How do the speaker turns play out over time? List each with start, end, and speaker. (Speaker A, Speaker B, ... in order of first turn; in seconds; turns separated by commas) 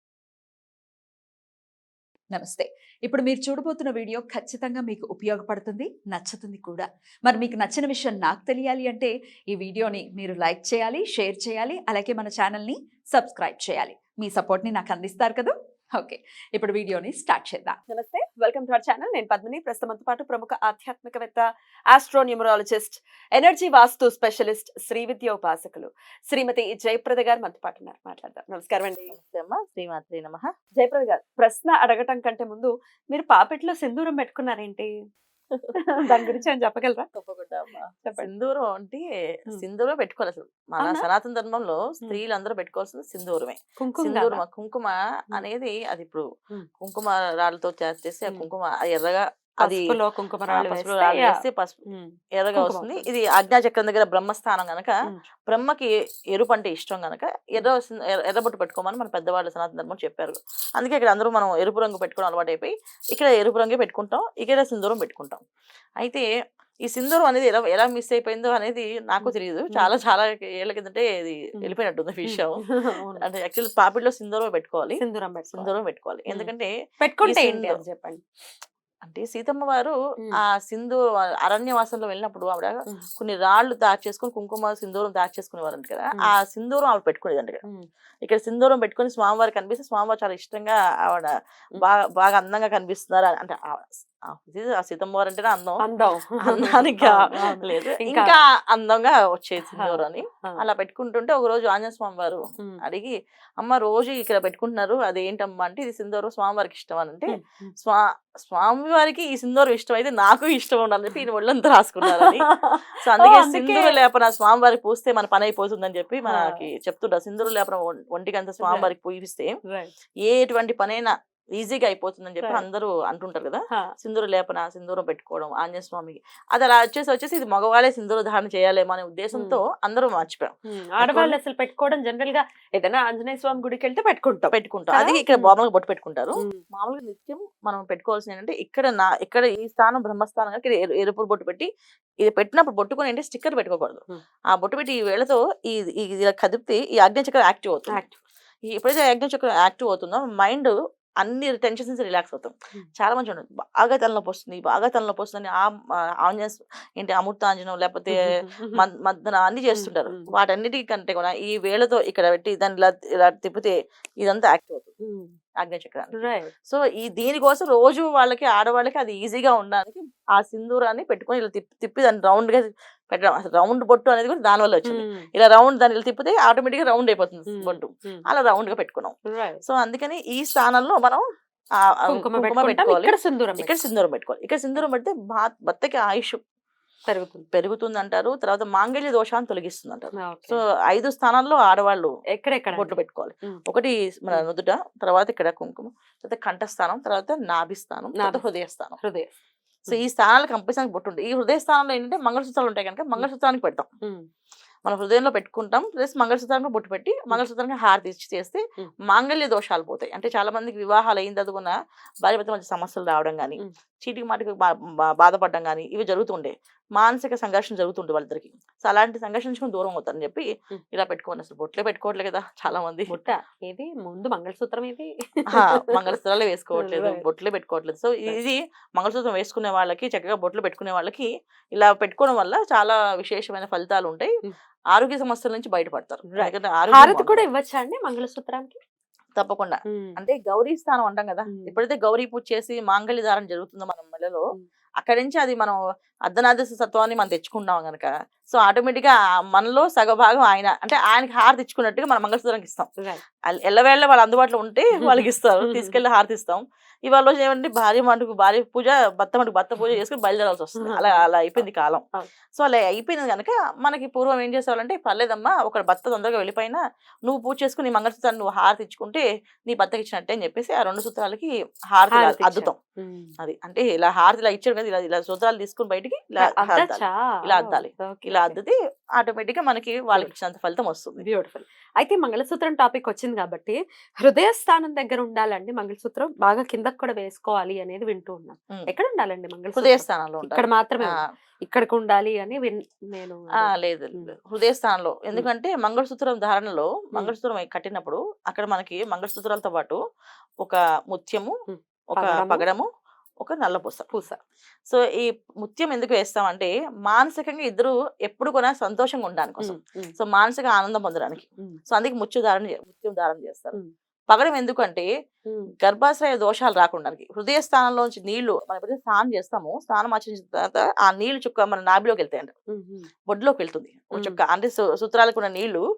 Speaker A: 2.3-17.8, Speaker B: 17.9-29.1, Speaker C: 29.1-30.5, Speaker B: 30.7-34.9, Speaker C: 35.5-36.4, Speaker B: 35.8-37.1, Speaker C: 37.1-46.2, Speaker B: 38.0-38.3, Speaker B: 40.8-41.0, Speaker B: 43.8-44.4, Speaker C: 46.8-50.0, Speaker B: 49.6-53.0, Speaker C: 50.5-51.8, Speaker C: 52.4-54.9, Speaker C: 55.5-65.4, Speaker C: 66.0-66.2, Speaker C: 66.8-72.6, Speaker B: 69.2-69.9, Speaker B: 72.3-73.2, Speaker C: 73.2-75.0, Speaker B: 75.0-75.7, Speaker C: 75.5-76.7, Speaker B: 76.3-78.2, Speaker C: 77.2-77.8, Speaker C: 79.0-87.6, Speaker C: 88.2-95.8, Speaker B: 95.8-98.3, Speaker C: 96.4-112.5, Speaker B: 99.7-100.6, Speaker B: 107.3-107.7, Speaker B: 112.1-114.0, Speaker C: 113.0-119.5, Speaker B: 116.3-116.6, Speaker B: 118.6-118.9, Speaker B: 119.7-119.9, Speaker C: 120.2-131.4, Speaker B: 129.3-129.6, Speaker B: 130.7-135.5, Speaker C: 134.5-141.7, Speaker B: 136.3-136.6, Speaker C: 142.2-148.0, Speaker B: 147.9-148.2, Speaker C: 148.7-155.7, Speaker C: 156.2-164.9, Speaker B: 158.2-158.8, Speaker B: 159.8-160.3, Speaker B: 165.0-165.3, Speaker C: 165.6-179.1, Speaker B: 166.2-166.5, Speaker B: 174.9-175.3, Speaker B: 177.5-178.3, Speaker B: 179.3-179.6, Speaker C: 179.6-181.2, Speaker C: 181.8-186.4, Speaker B: 182.1-183.8, Speaker B: 187.1-187.4, Speaker C: 187.5-192.1, Speaker B: 190.2-190.6, Speaker B: 192.3-193.6, Speaker C: 192.7-199.0, Speaker B: 199.0-199.3, Speaker C: 199.8-203.9, Speaker C: 204.8-223.2, Speaker B: 223.1-226.2, Speaker C: 225.5-234.3, Speaker B: 226.7-227.2, Speaker C: 234.9-237.4, Speaker B: 236.3-238.8, Speaker C: 239.3-244.4, Speaker B: 239.9-240.2, Speaker B: 241.5-241.8, Speaker C: 245.0-245.8, Speaker C: 246.3-252.9, Speaker C: 253.5-262.0, Speaker B: 255.0-256.0, Speaker B: 260.8-261.6, Speaker C: 262.6-272.8, Speaker B: 272.1-273.3, Speaker C: 273.4-281.2, Speaker B: 276.4-278.6, Speaker B: 281.2-294.3, Speaker C: 289.8-291.2, Speaker C: 293.6-300.0, Speaker C: 300.6-301.5, Speaker B: 301.7-302.6, Speaker C: 302.1-302.9, Speaker C: 303.4-304.1, Speaker B: 304.1-304.4, Speaker C: 304.9-313.8, Speaker B: 309.6-310.1, Speaker C: 314.3-315.1, Speaker B: 315.5-315.7, Speaker C: 315.8-322.5, Speaker B: 322.7-323.1, Speaker C: 323.3-325.8